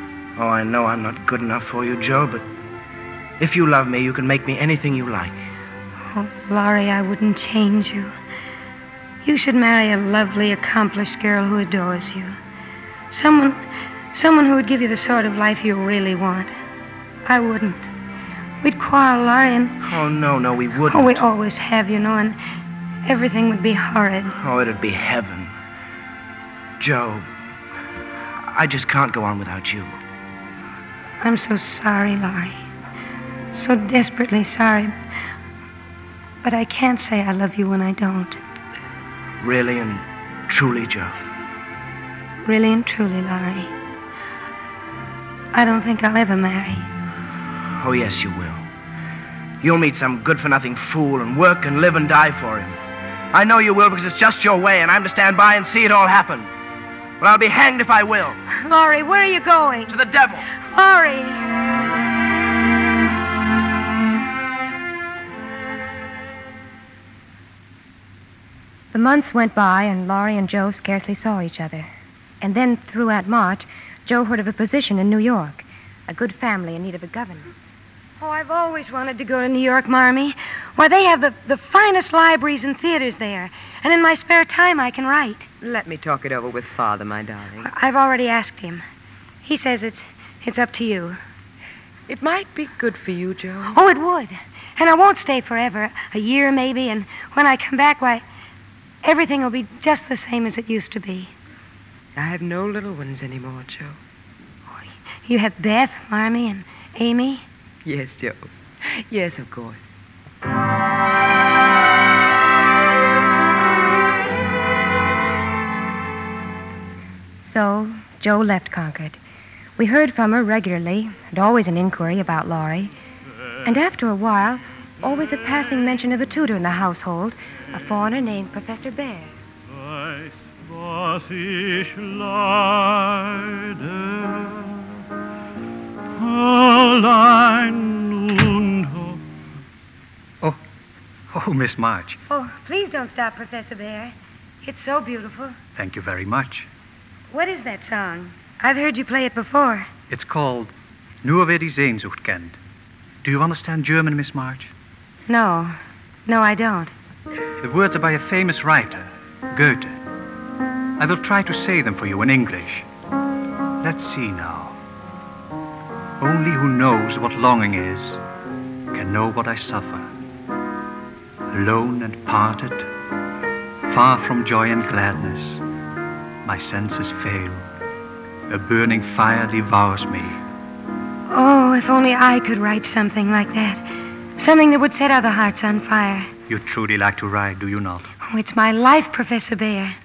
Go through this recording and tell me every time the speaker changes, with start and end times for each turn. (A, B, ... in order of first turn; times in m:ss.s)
0:00.4-0:02.4 A
0:03.4-0:05.4 A
0:06.1-0:08.1 B
0:09.2-0:12.4 B
0:13.1-0:13.6 B
0:14.1-0:16.5 B
0:17.3-0:17.9 B
0:18.6-0:19.8 B
0:19.8-0:21.2 A
0:20.9-0:22.4 B
0:23.0-0:24.4 B
0:24.4-0:25.5 A
0:26.8-0:27.3 A
0:28.4-0:30.0 A
0:31.2-0:32.6 B
0:33.5-0:34.9 B
0:36.4-0:38.4 B
0:39.4-0:41.2 A
0:42.4-0:43.7 B
0:45.5-0:46.9 B
0:47.8-0:48.6 A
0:49.6-0:52.8 A
0:53.3-0:56.5 A
0:57.2-0:58.4 A
0:58.5-0:59.9 B
0:59.9-1:00.5 A
1:00.6-1:01.4 B
1:08.9-1:11.9 C
1:12.4-1:17.5 C
1:18.2-1:25.5 B
1:25.6-1:27.7 D
1:27.6-1:28.8 B
1:29.4-1:31.2 B
1:32.1-1:33.8 D
1:33.7-1:38.2 B
1:39.0-1:41.3 B
1:42.2-1:44.0 D
1:44.7-1:47.4 B
1:47.8-1:49.9 D
1:57.4-1:59.2 C
1:59.8-2:02.9 C
2:03.6-2:09.3 C
2:09.7-2:14.9 E
2:16.2-2:19.2 E
2:21.3-2:22.2 F
2:22.3-2:25.6 B
2:25.8-2:26.7 F
2:27.3-2:29.9 B
2:30.1-2:30.7 F
2:31.2-2:32.6 F
2:33.2-2:34.7 F
2:35.3-2:36.9 B
2:37.6-2:40.0 F
2:41.0-2:42.8 F
2:43.8-2:44.8 F
2:46.2-2:48.2 F
2:48.9-2:50.1 F
2:51.5-2:52.9 F
2:53.9-2:55.6 F
2:56.4-2:57.6 F
2:58.5-3:00.4 F
3:01.3-3:03.8 B
3:04.4-3:06.3 B
3:06.5-3:08.1 F
3:08.2-3:10.0 B